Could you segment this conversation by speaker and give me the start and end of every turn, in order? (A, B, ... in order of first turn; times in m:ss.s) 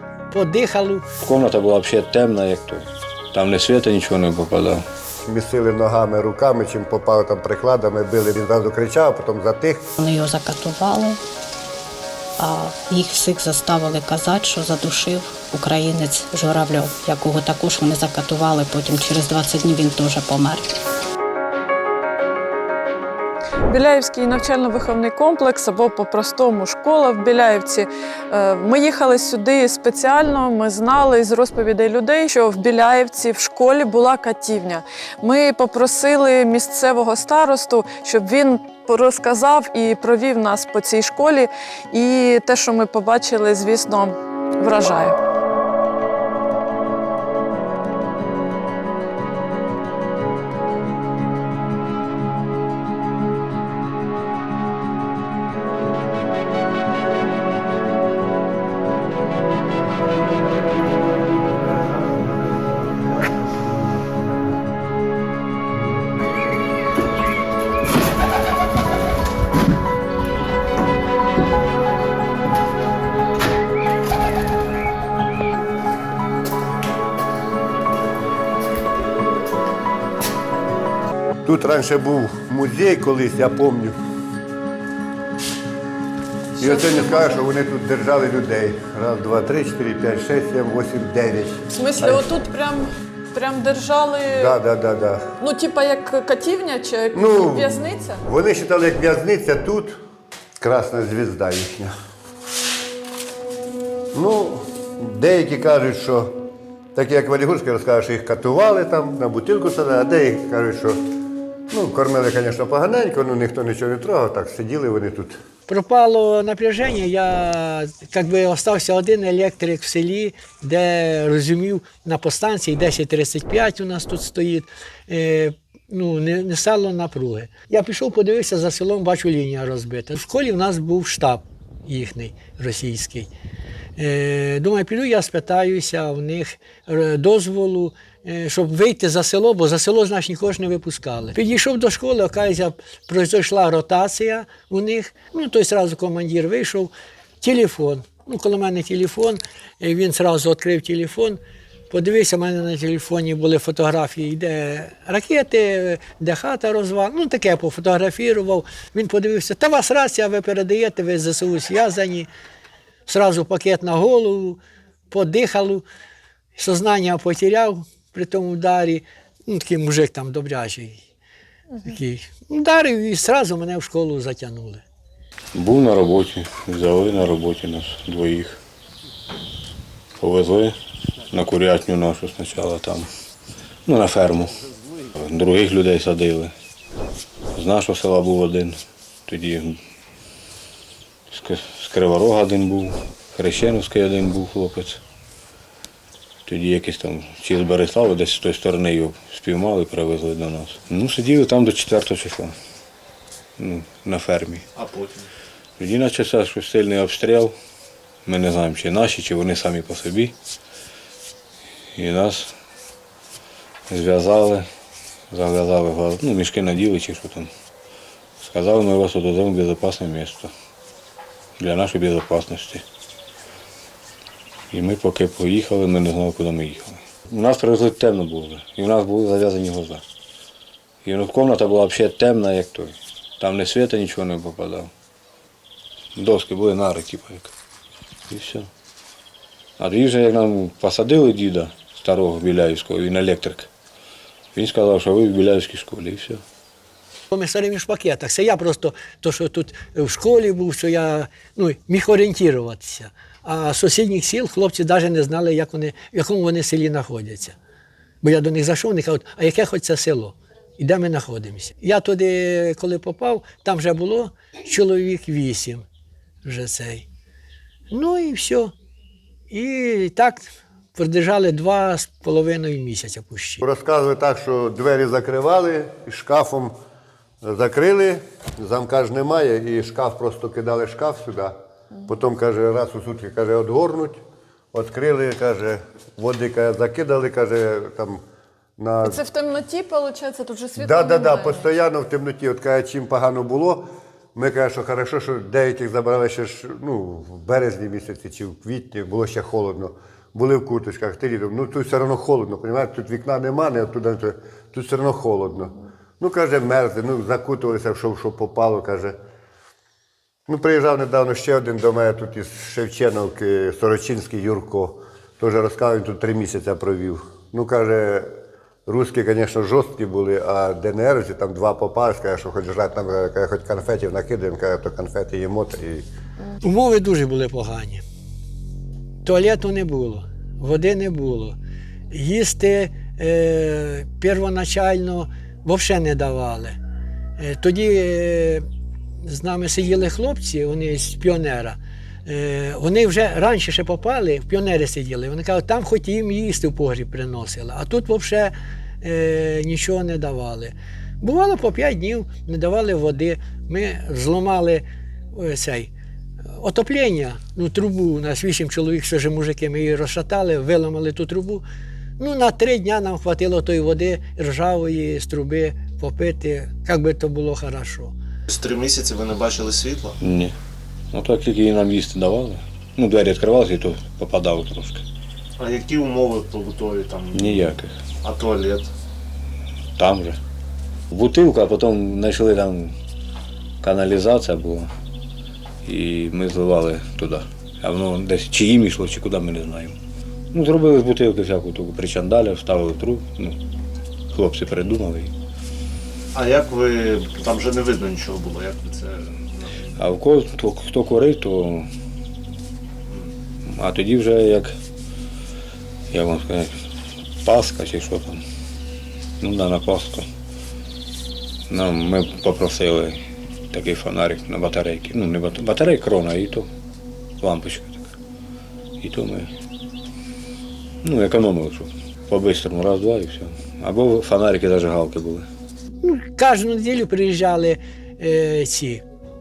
0:00.3-0:01.0 A
0:01.2-0:04.8 B
0:05.2-0:09.9 C
0:10.0-0:11.2 D
0:12.4-0:20.7 D
0:23.7-0:45.2 E
1:21.4-1:23.9 C
1:26.6-1:27.4 E
1:26.6-1:32.2 C
1:31.7-1:34.5 E
1:34.3-1:35.3 C
1:35.4-1:38.2 E
1:37.1-1:40.0 C
1:40.6-1:41.9 C
1:44.1-1:46.4 C
1:46.9-1:51.0 C
1:51.7-1:55.4 C
1:55.7-2:13.3 A
2:14.0-2:42.3 A
2:43.1-2:44.6 A
2:45.1-2:45.8 A
2:46.6-2:51.0 A
2:51.8-2:54.8 A
2:55.5-2:58.6 B
3:00.2-3:00.8 B
3:01.3-3:03.1 B
3:03.8-3:04.5 B
3:05.1-3:06.5 B
3:07.5-3:09.8 B
3:11.3-3:15.0 B
3:16.4-3:22.5 B
3:23.6-3:24.6 B
3:24.7-3:25.3 F
3:25.8-3:27.5 B
3:28.2-3:30.3 B
3:32.0-3:32.5 B
3:33.9-3:34.7 B
3:35.3-3:37.5 B
3:38.4-3:40.5 B
3:41.6-3:42.8 B
3:44.7-3:50.0 B
3:51.0-3:54.9 B
3:56.2-3:57.5 B
3:58.3-3:58.7 B
3:59.8-4:03.7 B
4:04.5-4:06.4 B
4:07.3-4:17.6 A
4:18.2-4:25.8 A
4:26.4-4:27.0 A
4:27.9-4:28.7 A
4:29.5-4:33.6 A
4:33.6-4:36.7 C
4:37.4-4:44.2 C
4:44.7-4:48.2 C
4:48.8-4:49.2 C
4:49.0-4:51.7 E
4:50.8-5:09.2 C
5:10.5-5:18.3 C
5:18.8-5:26.0 C
5:26.6-5:28.0 A
5:29.2-5:31.6 A
5:32.1-5:36.8 A
5:37.4-5:38.6 A
5:39.2-5:55.9 A
5:56.5-6:01.6 A
6:02.2-6:08.1 A
6:08.5-6:10.2 F
6:10.2-6:10.5 B
6:11.1-6:15.0 B
6:15.6-6:17.7 F
6:17.3-6:17.9 B
6:18.2-6:18.9 F
6:20.0-6:20.4 B
6:21.1-6:22.9 B
6:23.8-6:24.9 B
6:25.8-6:30.0 B
6:30.5-6:33.6 B
6:34.3-6:35.3 B
6:36.3-6:39.8 F
6:40.0-6:41.9 B
6:43.1-6:43.3 F
6:43.6-6:44.7 B
6:46.1-6:46.8 B
6:47.4-6:48.4 B
6:49.4-6:50.3 B
6:51.7-6:56.7 B
6:57.4-6:58.1 B
6:59.0-6:59.5 B
7:01.0-7:05.5 B
7:06.0-7:09.0 A